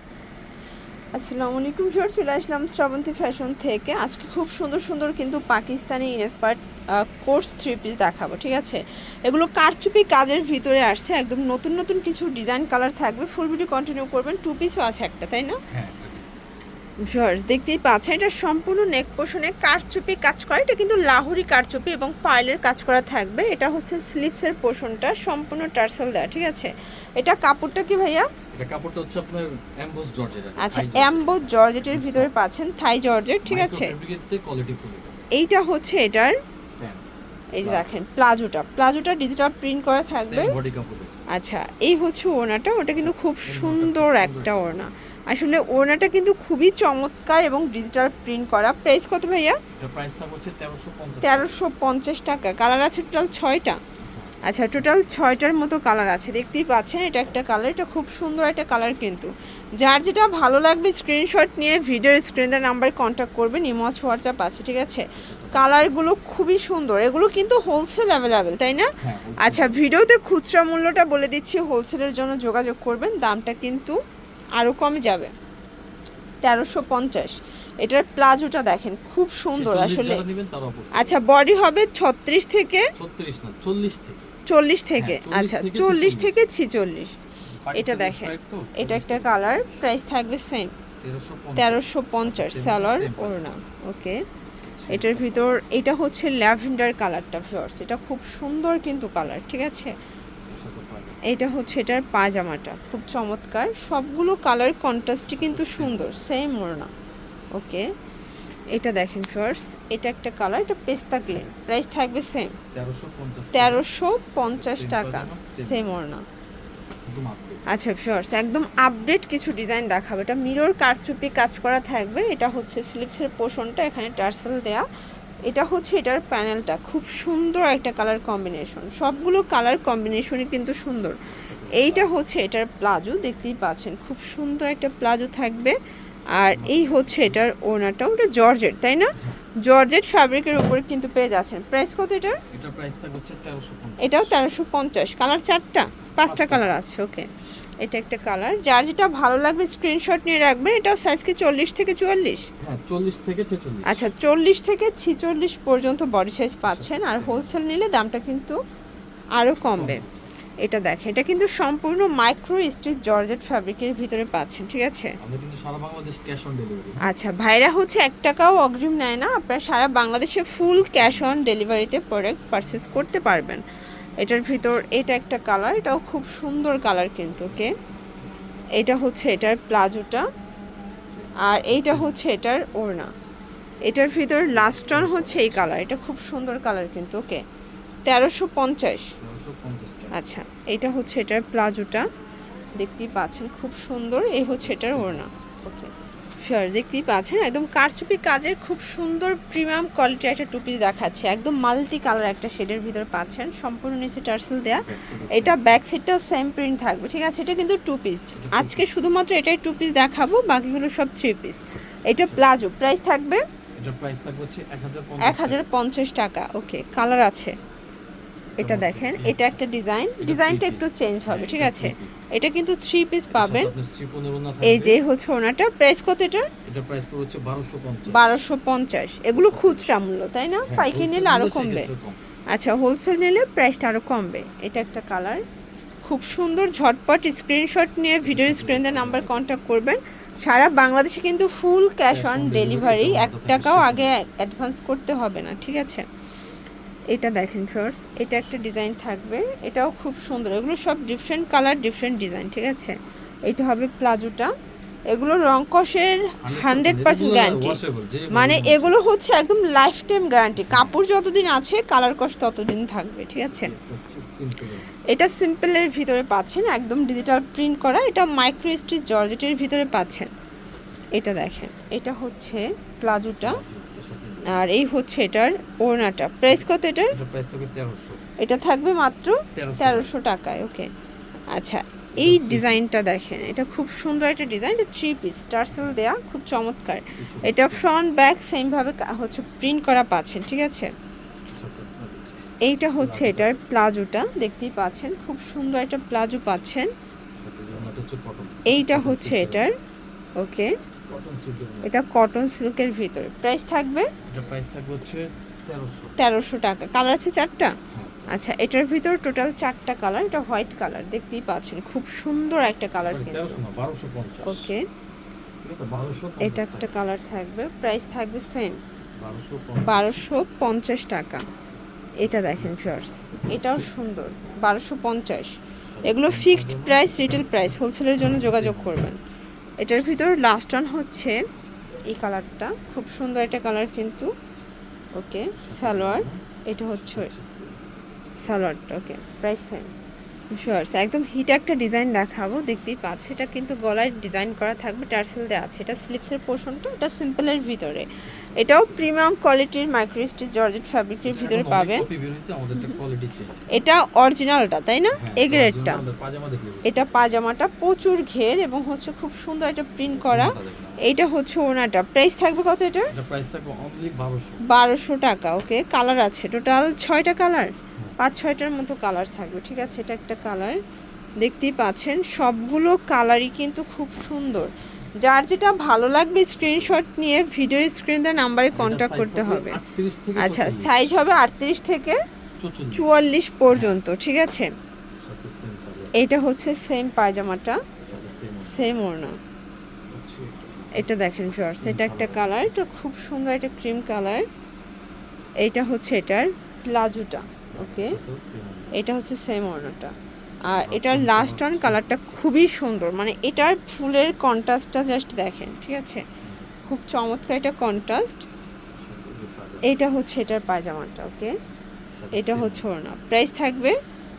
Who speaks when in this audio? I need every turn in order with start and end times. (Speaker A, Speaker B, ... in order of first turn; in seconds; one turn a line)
Speaker A: 1.1-15.6
Speaker B: 15.7-16.3
Speaker A: 17.1-28.3
Speaker B: 28.5-32.3
Speaker A: 30.6-33.9
Speaker B: 33.5-35.2
Speaker A: 35.3-36.3
Speaker B: 36.8-37.0
Speaker A: 37.5-40.6
Speaker B: 37.6-37.9
Speaker B: 40.2-41.1
Speaker A: 41.3-49.6
Speaker B: 43.0-44.9
Speaker B: 49.8-51.6
Speaker A: 51.2-53.8
Speaker B: 54.0-54.9
Speaker A: 54.4-74.0
Speaker B: 65.1-65.9
Speaker B: 69.0-69.9
Speaker A: 74.6-75.3
Speaker A: 76.4-80.2
Speaker B: 79.5-81.2
Speaker A: 80.9-82.9
Speaker B: 83.0-84.3
Speaker A: 84.5-87.2
Speaker B: 85.0-86.3
Speaker B: 87.6-89.9
Speaker A: 87.7-90.7
Speaker B: 91.0-93.5
Speaker A: 91.5-94.2
Speaker B: 94.6-95.6
Speaker A: 94.9-99.9
Speaker B: 100.5-101.2
Speaker A: 101.2-106.9
Speaker B: 105.3-106.2
Speaker A: 107.5-107.9
Speaker A: 108.7-112.6
Speaker B: 112.7-113.9
Speaker A: 113.5-116.2
Speaker B: 114.5-115.9
Speaker B: 117.1-117.6
Speaker A: 117.7-124.8
Speaker A: 125.5-135.8
Speaker B: 131.3-132.2
Speaker A: 136.3-142.4
Speaker B: 136.5-137.5
Speaker B: 142.5-144.5
Speaker A: 144.0-147.3
Speaker B: 146.1-146.7
Speaker A: 147.8-152.5
Speaker B: 152.6-154.1
Speaker A: 153.9-158.6
Speaker B: 156.6-157.6
Speaker A: 159.3-160.0
Speaker B: 159.7-160.2
Speaker A: 160.6-165.2
Speaker B: 165.2-167.1
Speaker A: 167.0-173.6
Speaker B: 170.6-171.4
Speaker A: 174.2-177.8
Speaker B: 177.8-178.2
Speaker A: 178.8-180.2
Speaker B: 181.1-182.2
Speaker A: 181.4-183.1
Speaker A: 183.8-187.4
Speaker B: 184.3-185.8
Speaker A: 188.0-189.1
Speaker B: 189.2-190.2
Speaker A: 190.1-192.1
Speaker A: 192.8-195.9
Speaker B: 194.6-195.2
Speaker A: 196.4-213.4
Speaker B: 204.7-205.8
Speaker B: 208.3-209.0
Speaker B: 212.1-212.6
Speaker B: 213.8-215.7
Speaker A: 215.2-217.6
Speaker B: 218.6-219.5
Speaker A: 218.6-223.7
Speaker B: 220.2-222.3
Speaker B: 223.3-225.0
Speaker A: 224.6-226.5
Speaker B: 226.6-228.4
Speaker A: 228.1-231.9
Speaker B: 229.3-229.9
Speaker B: 230.6-232.2
Speaker A: 232.5-235.4
Speaker A: 236.0-246.0
Speaker B: 238.2-239.3
Speaker B: 242.1-244.1
Speaker A: 247.1-254.5
Speaker A: 255.1-257.8
Speaker B: 256.4-258.9
Speaker A: 258.3-263.7
Speaker B: 260.6-260.9
Speaker B: 263.5-265.0
Speaker A: 265.1-270.3
Speaker A: 271.1-273.6
Speaker B: 273.4-274.7
Speaker A: 274.4-277.2
Speaker B: 276.5-278.2
Speaker A: 278.4-280.9
Speaker B: 279.5-280.1
Speaker A: 281.5-290.9
Speaker B: 282.1-283.0
Speaker B: 285.7-286.0
Speaker B: 287.2-287.9
Speaker B: 291.5-293.6
Speaker A: 292.6-296.9
Speaker B: 297.4-299.7
Speaker A: 298.7-299.7
Speaker A: 300.4-300.7
Speaker B: 301.1-301.9
Speaker A: 301.8-304.1
Speaker B: 304.3-306.2
Speaker A: 306.2-307.8
Speaker B: 307.9-308.4
Speaker A: 308.3-313.6
Speaker B: 313.0-314.7
Speaker A: 314.4-314.8
Speaker B: 315.6-316.9
Speaker A: 316.4-318.8
Speaker B: 319.2-320.2
Speaker A: 319.8-321.4
Speaker A: 322.2-329.2
Speaker B: 322.2-323.9
Speaker B: 325.9-329.1
Speaker A: 329.8-331.4
Speaker A: 332.1-334.3
Speaker A: 335.1-337.3
Speaker B: 335.5-336.4
Speaker B: 336.9-337.8
Speaker A: 338.4-339.9
Speaker A: 340.5-352.1
Speaker B: 348.2-349.3
Speaker B: 351.2-353.8
Speaker A: 353.7-356.0
Speaker B: 355.1-357.2
Speaker A: 356.8-363.1
Speaker B: 360.1-361.0
Speaker B: 363.1-364.6
Speaker A: 364.7-370.8
Speaker A: 371.4-379.8
Speaker B: 376.6-377.0
Speaker B: 378.7-380.9
Speaker A: 380.4-382.2
Speaker B: 382.6-383.1
Speaker A: 382.9-384.7
Speaker B: 383.7-384.0
Speaker B: 385.2-386.1
Speaker A: 386.1-387.8
Speaker B: 388.0-388.9
Speaker A: 388.6-389.4
Speaker B: 390.1-391.1
Speaker A: 390.9-394.4
Speaker B: 391.8-392.8
Speaker A: 395.6-398.2
Speaker B: 397.7-398.9
Speaker A: 398.9-406.2
Speaker B: 400.7-402.0
Speaker B: 406.4-406.7
Speaker A: 406.8-408.4
Speaker B: 408.9-409.9
Speaker A: 409.8-411.5
Speaker B: 412.1-412.8
Speaker A: 412.3-414.0